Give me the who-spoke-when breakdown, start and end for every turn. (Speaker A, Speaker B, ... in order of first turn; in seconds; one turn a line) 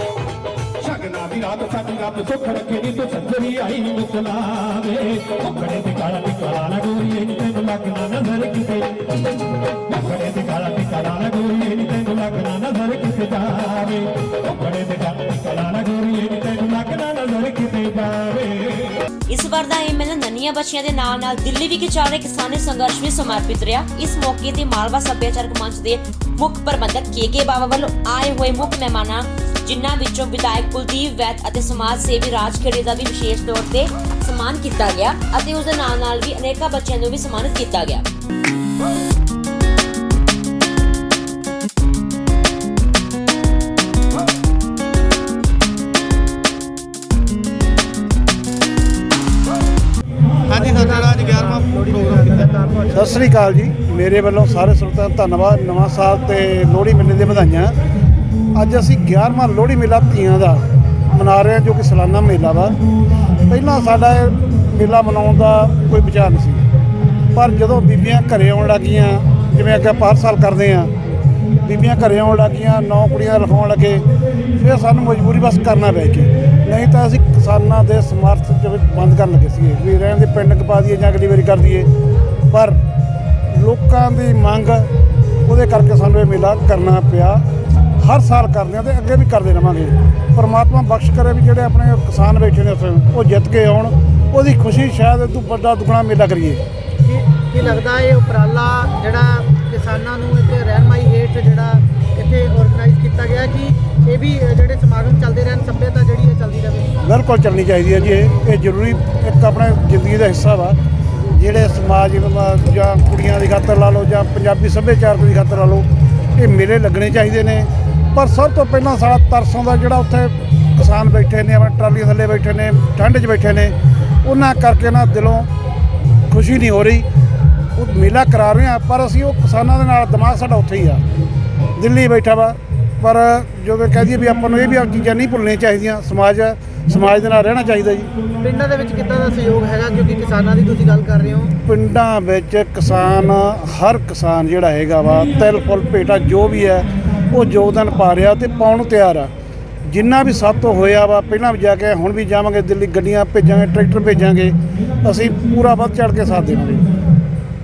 Speaker A: 0.8-19.0
Speaker B: 19.3-38.0
Speaker C: 50.5-53.3
Speaker D: 52.9-57.8
Speaker D: 58.5-62.8
Speaker D: 63.5-66.6
Speaker D: 67.3-70.9
Speaker D: 71.6-74.0
Speaker D: 74.5-81.9
Speaker D: 82.5-82.8
Speaker D: 83.5-84.9
Speaker D: 85.5-87.4
Speaker D: 88.0-96.6
Speaker C: 97.0-106.9
Speaker D: 107.0-125.5
Speaker D: 126.3-127.1
Speaker D: 127.8-131.0
Speaker D: 131.8-138.1
Speaker C: 138.4-141.5
Speaker D: 141.6-149.3
Speaker D: 149.9-156.9